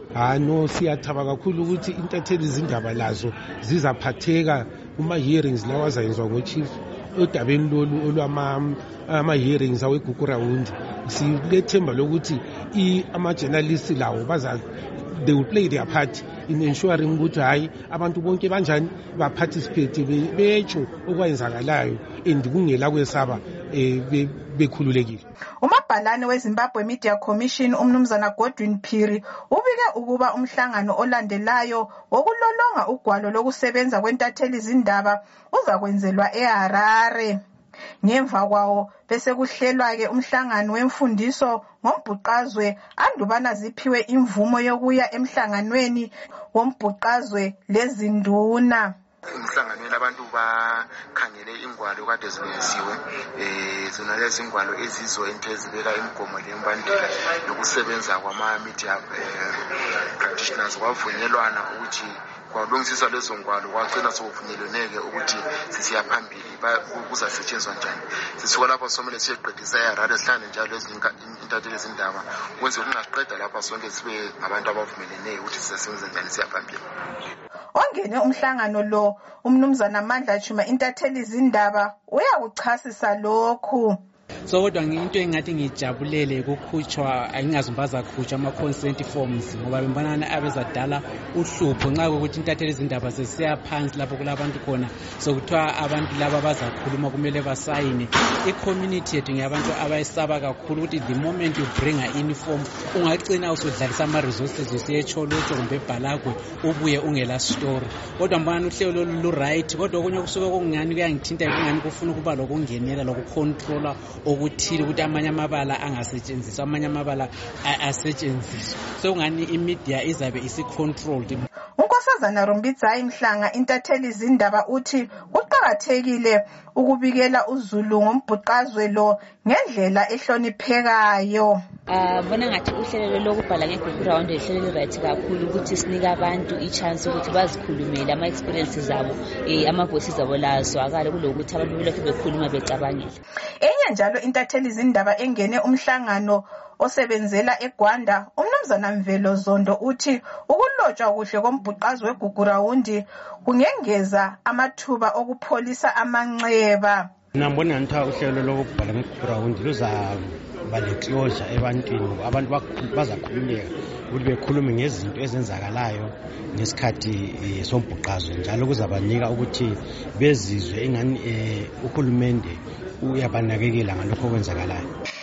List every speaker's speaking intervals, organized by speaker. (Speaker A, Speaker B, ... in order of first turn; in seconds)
Speaker A: 0.1-25.2
Speaker B: 25.6-37.4, 38.0-48.9, 77.8-84.0, 121.8-131.6, 143.6-157.1
Speaker C: 49.3-59.6, 60.2-76.8
Speaker D: 84.5-121.5
Speaker E: 131.9-143.1
Speaker F: 157.4-174.9